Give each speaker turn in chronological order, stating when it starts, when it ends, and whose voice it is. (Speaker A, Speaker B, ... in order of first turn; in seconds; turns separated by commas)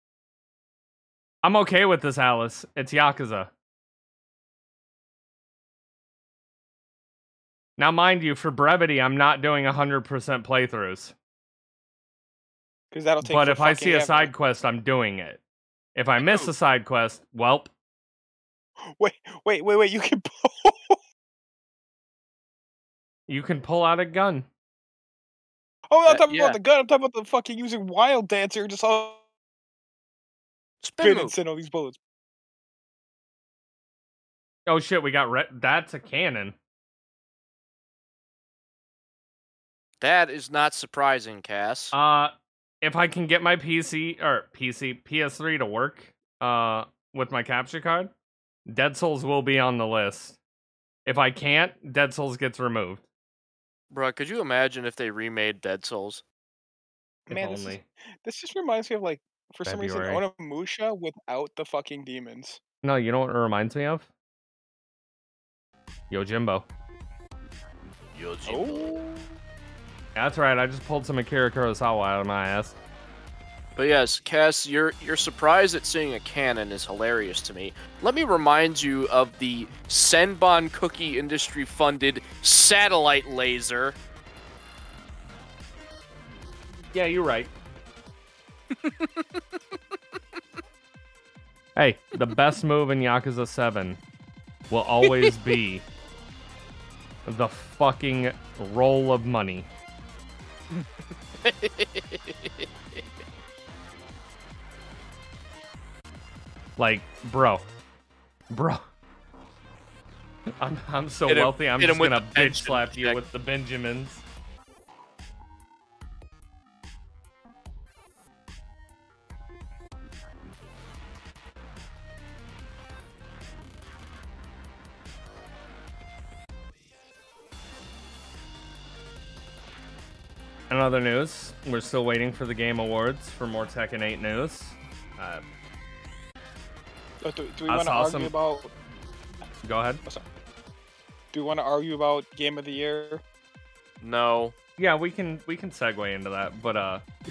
Speaker A: 1.4-3.5, Speaker A: 7.8-11.2, Speaker B: 12.9-14.3, Speaker A: 13.2-15.4, Speaker A: 15.9-17.7, Speaker B: 18.8-21.0, Speaker A: 23.3-24.5, Speaker B: 25.9-29.2, Speaker C: 26.1-26.6, Speaker C: 30.8-31.3, Speaker B: 31.0-32.0, Speaker A: 34.7-36.6, Speaker C: 40.0-42.0, Speaker A: 41.9-48.1, Speaker A: 48.7-50.4, Speaker A: 51.1-53.0, Speaker C: 53.9-56.2, Speaker B: 57.3-62.6, Speaker A: 57.3-57.9, Speaker A: 59.6-60.2, Speaker A: 62.8-64.1, Speaker A: 66.1-66.7, Speaker C: 68.1-69.0, Speaker B: 68.5-69.4, Speaker A: 70.2-72.8, Speaker C: 73.8-84.0, Speaker A: 86.9-87.5, Speaker C: 88.8-89.4, Speaker A: 91.8-94.0, Speaker A: 94.7-95.9, Speaker C: 95.0-95.3, Speaker A: 97.3-99.7, Speaker C: 101.4-103.0, Speaker A: 106.8-107.7, Speaker A: 108.5-108.9, Speaker A: 110.6-114.2, Speaker C: 111.3-113.2, Speaker A: 130.7-135.4, Speaker B: 137.2-138.7, Speaker A: 137.7-138.3, Speaker A: 139.6-140.0, Speaker B: 141.3-143.2, Speaker C: 144.0-144.6, Speaker A: 144.8-147.1